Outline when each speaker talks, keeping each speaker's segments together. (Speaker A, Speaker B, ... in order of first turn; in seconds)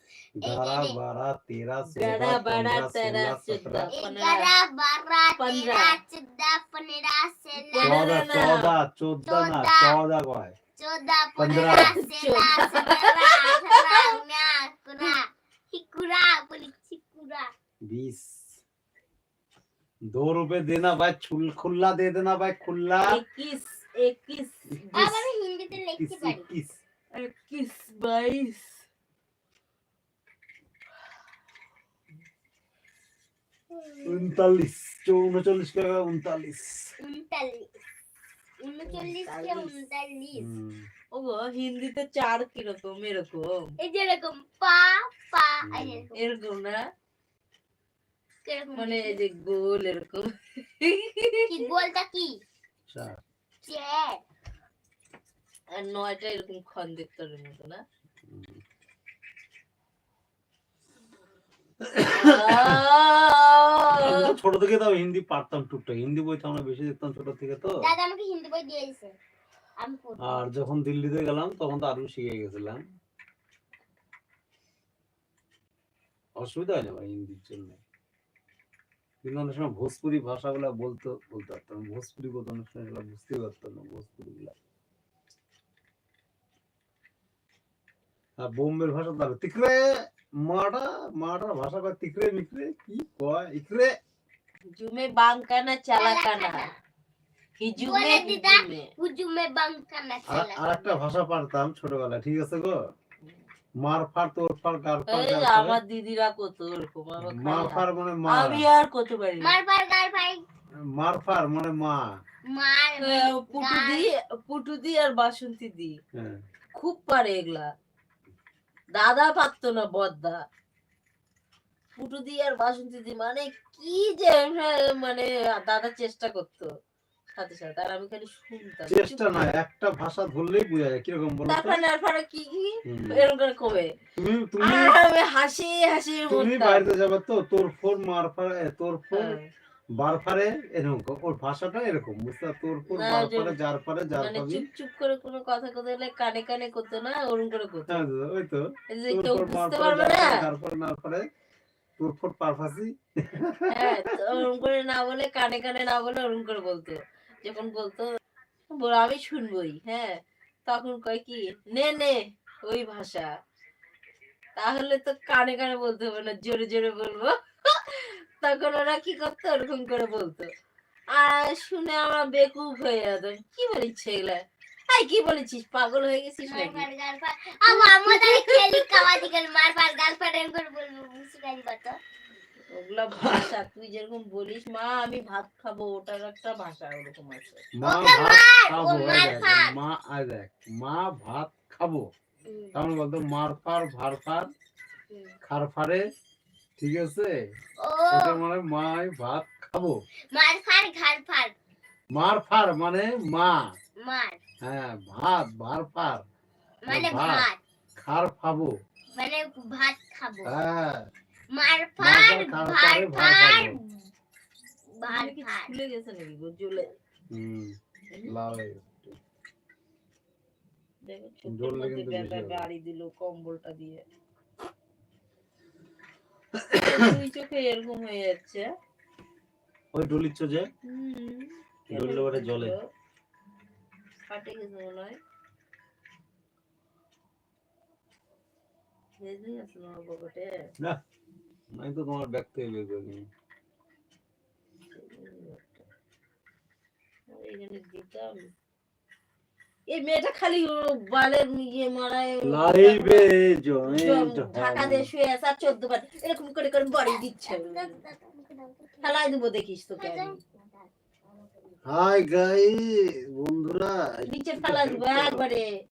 Speaker A: 0.4-1.0, 3.9-8.2, 9.2-10.0, 10.8-17.5, 24.9-26.5, 33.7-34.3, 37.0-37.7, 38.6-40.5, 43.8-46.3, 48.4-49.2, 51.5-52.4, 53.6-54.2, 67.8-69.2, 69.8-70.5, 96.0-96.7, 97.8-100.6, 109.4-110.4, 112.5-114.1, 176.4-182.0, 187.8-189.7, 192.4-192.8, 195.1-195.3, 197.8-198.4, 200.3-201.5, 204.0-204.4, 206.8-207.6, 209.2-210.5, 211.5-213.8, 215.0-215.7, 257.1-259.3, 260.0-261.7
Speaker B: 0.4-3.9, 7.8-10.6, 11.4-11.9, 17.8-18.6, 20.1-23.2, 25.7-26.8, 34.0-36.9, 40.4-40.9, 45.6-46.0, 52.9-53.2, 58.3-58.6, 61.8-62.8, 64.0-67.8, 70.2-72.8, 76.4-77.8, 79.2-84.5, 88.4-94.0, 100.3-102.8, 103.8-105.8, 107.2-108.6, 110.9-112.0, 116.1-116.4, 128.9-131.8, 132.8-133.2, 134.2-134.9, 136.3-139.3, 140.0-144.6, 147.9-151.3, 152.0-154.3, 183.2-183.5, 187.8-192.1, 192.7-194.5, 195.4-196.1, 196.8-197.4, 198.1-200.0, 202.1-203.7, 204.6-206.2, 206.9-207.4, 208.0-208.7, 210.4-211.1, 212.0-213.8, 217.3-219.1, 221.5-222.6, 226.5-227.1, 229.9-230.7, 231.9-232.7, 241.7-243.3, 252.4-255.1, 261.9-265.4
Speaker C: 1.9-4.5, 5.4-6.0, 7.6-8.7, 11.4-14.2, 23.1-25.3, 27.1-28.8, 38.8-39.7, 41.1-43.7, 46.1-46.8, 48.8-51.5, 55.7-57.8, 62.0-64.3, 94.7-96.7, 97.6-98.9, 105.1-109.6, 113.0-116.0, 116.7-117.7, 119.0-120.4, 122.0-126.7, 127.3-129.3, 131.5-133.9, 134.6-136.8, 139.1-139.4, 142.9-143.6, 144.2-148.0, 148.9-150.4, 153.7-158.1, 158.7-163.3, 164.6-170.5, 171.1-176.9, 177.7-179.2, 182.7-187.6, 215.0-216.9, 221.0-224.0, 226.8-228.7, 230.8-232.8, 234.3-235.2, 239.2-240.7, 244.9-245.8, 247.3-248.5, 249.9-253.3, 253.9-258.0, 259.0-260.4, 264.3-265.7